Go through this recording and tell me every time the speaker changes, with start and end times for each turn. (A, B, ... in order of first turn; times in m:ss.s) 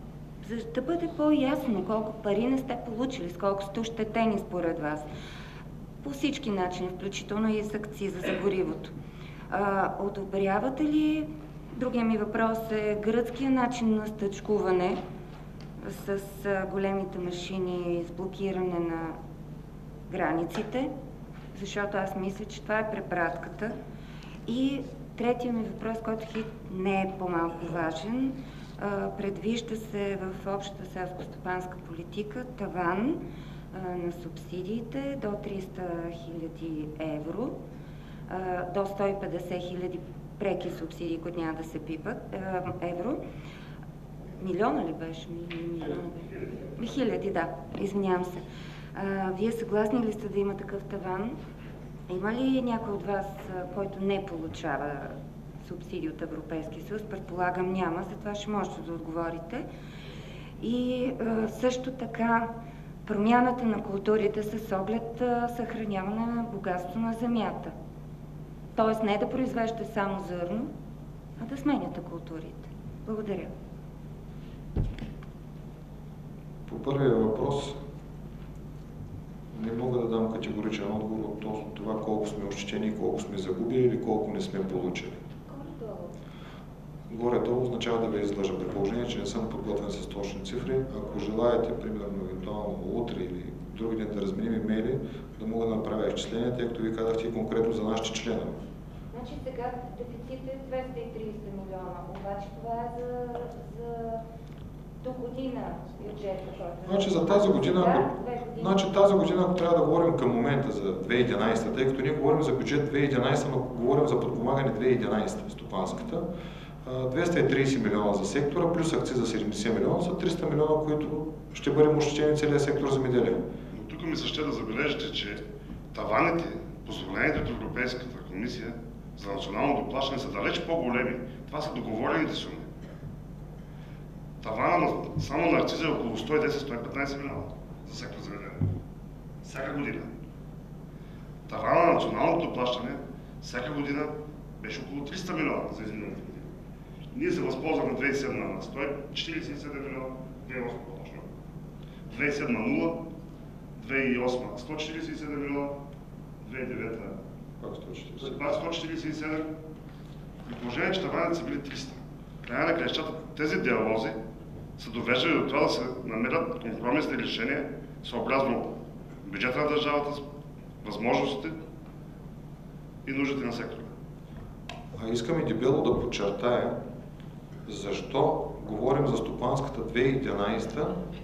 0:00.4-0:05.1 A
0:06.0-0:08.9 A
0:09.5-0:15.0 A
0:15.8-0:19.2 A
0:20.1-0:20.9 A
0:21.5-0:23.7 A
0:24.5-0:33.2 A
0:33.7-0:37.6 A
0:38.3-0:43.2 A
0:44.4-0:48.4 A
0:49.0-0:51.4 A
0:52.1-0:59.7 A
1:00.6-1:02.5 A
1:03.0-1:07.8 A
1:08.8-1:10.7 A
1:11.4-1:13.5 A
1:16.7-1:17.8 B
1:19.5-1:25.2 B
1:25.5-1:26.1 A
1:27.1-1:38.6 B
1:39.1-1:44.2 A
1:45.0-1:48.8 A
1:46.9-1:56.3 B
1:56.8-2:03.4 B
2:03.7-2:05.4 C
2:05.9-2:12.7 C
2:14.4-2:18.7 C
2:19.4-2:20.1 C
2:21.5-2:26.5 C
2:27.1-2:31.2 C
2:32.1-2:33.0 C
2:33.8-2:35.8 C
2:36.4-2:37.2 C
2:37.6-2:38.5 B
2:38.2-2:39.5 C
2:40.5-2:44.2 C
2:44.8-2:50.2 C
2:50.8-2:51.6 C
2:53.0-2:53.9 C
2:55.0-2:56.8 B
2:57.7-3:01.0 B